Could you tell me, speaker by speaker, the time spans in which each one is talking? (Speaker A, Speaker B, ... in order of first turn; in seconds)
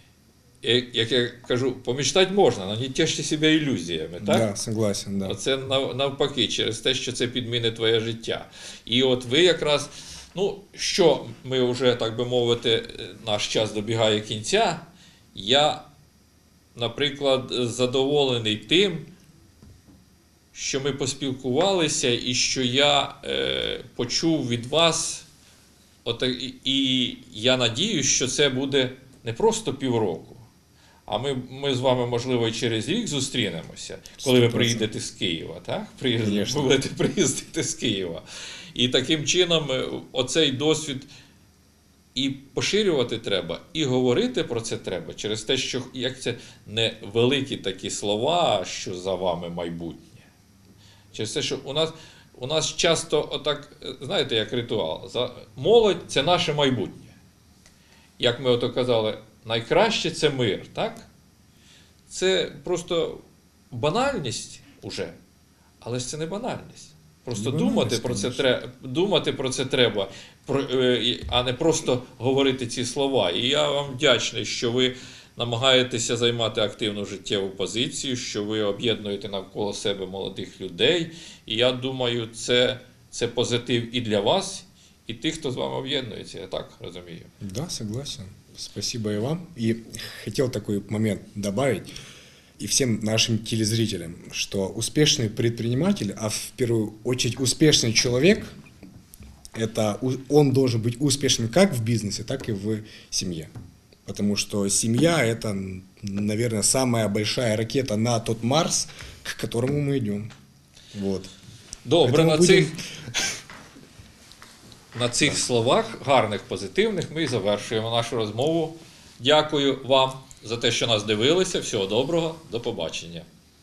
Speaker A: 0.6-4.5, 5.2-15.9, 16.8-19.1, 20.5-25.3, 26.1-30.4, 31.1-38.2, 38.8-41.1, 42.1-50.2, 51.1-57.1, 58.2-61.1, 62.1-65.2, 65.8-87.3, 111.9-112.8, 114.9-123.3
Speaker B: 4.2-5.4, 34.2-34.9, 36.2-36.7, 67.3-68.5, 87.4-91.9, 92.6-98.5, 99.5-103.5, 104.1-110.3, 110.9-111.3, 112.0-113.3